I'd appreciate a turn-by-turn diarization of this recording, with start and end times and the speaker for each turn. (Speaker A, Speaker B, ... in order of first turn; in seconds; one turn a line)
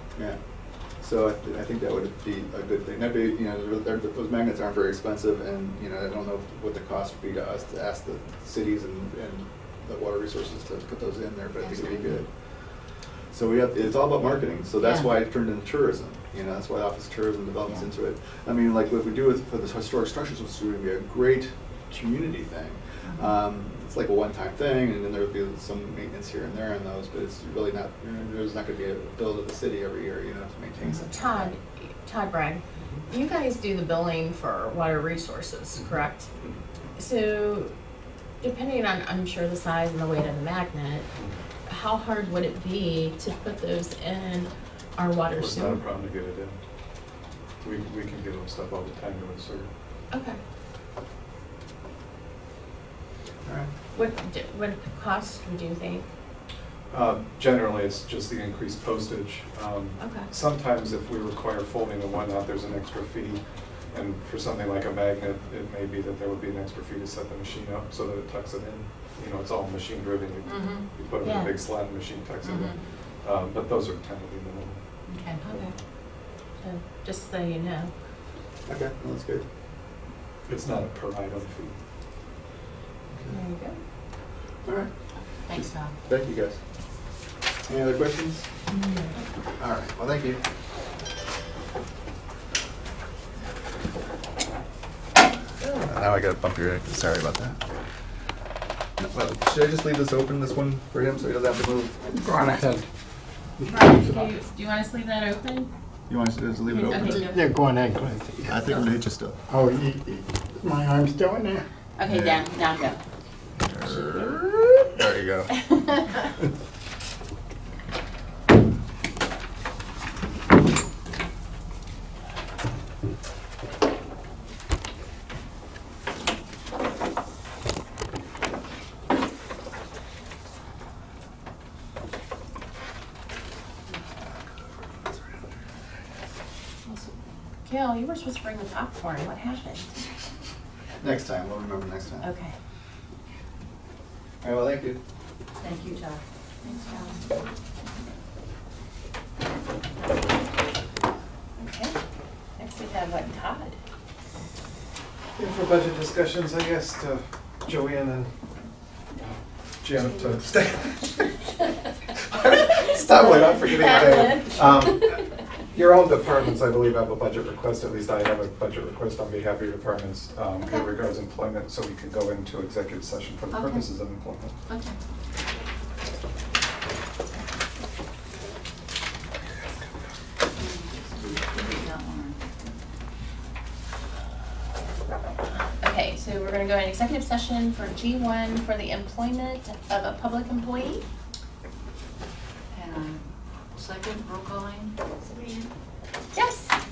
Speaker A: 1.0-12.3
Speaker B: 11.6-12.2
Speaker A: 13.3-31.6
Speaker B: 14.8-15.1
Speaker B: 23.0-23.4
Speaker C: 31.0-36.3
Speaker C: 37.0-37.7
Speaker C: 38.4-41.1
Speaker C: 41.7-45.8
Speaker D: 45.3-46.6
Speaker D: 47.6-49.7
Speaker C: 50.1-50.4
Speaker C: 53.9-56.1
Speaker D: 56.9-74.8
Speaker C: 60.0-60.3
Speaker B: 70.5-70.9
Speaker C: 71.1-71.5
Speaker B: 72.4-72.8
Speaker B: 75.1-75.4
Speaker C: 75.4-75.7
Speaker C: 76.6-77.9
Speaker A: 78.7-79.5
Speaker D: 80.5-81.8
Speaker C: 83.3-83.8
Speaker A: 84.7-84.9
Speaker B: 85.5-85.9
Speaker A: 85.5-86.6
Speaker A: 87.7-88.5
Speaker C: 88.7-89.2
Speaker A: 89.6-90.4
Speaker A: 95.8-97.6
Speaker A: 99.0-102.0
Speaker E: 102.2-102.8
Speaker C: 103.7-105.7
Speaker A: 106.1-107.3
Speaker C: 106.7-107.5
Speaker E: 107.0-108.5
Speaker A: 108.5-109.4
Speaker E: 109.5-111.7
Speaker C: 112.0-113.0
Speaker A: 112.1-112.5
Speaker A: 113.6-115.7
Speaker C: 113.9-114.6
Speaker B: 136.9-137.2
Speaker C: 137.7-139.9
Speaker A: 141.0-142.3
Speaker C: 142.2-142.6
Speaker A: 144.4-145.0
Speaker B: 145.6-147.3
Speaker C: 146.7-147.1
Speaker C: 151.6-152.0
Speaker C: 152.6-153.8
Speaker D: 155.4-158.3
Speaker D: 159.2-161.3
Speaker D: 162.1-174.6
Speaker C: 162.8-164.6
Speaker C: 170.6-170.9
Speaker B: 173.5-173.9
Speaker B: 174.7-175.0
Speaker B: 180.6-182.5
Speaker C: 185.8-191.1
Speaker B: 192.7-195.7
Speaker C: 196.3-196.8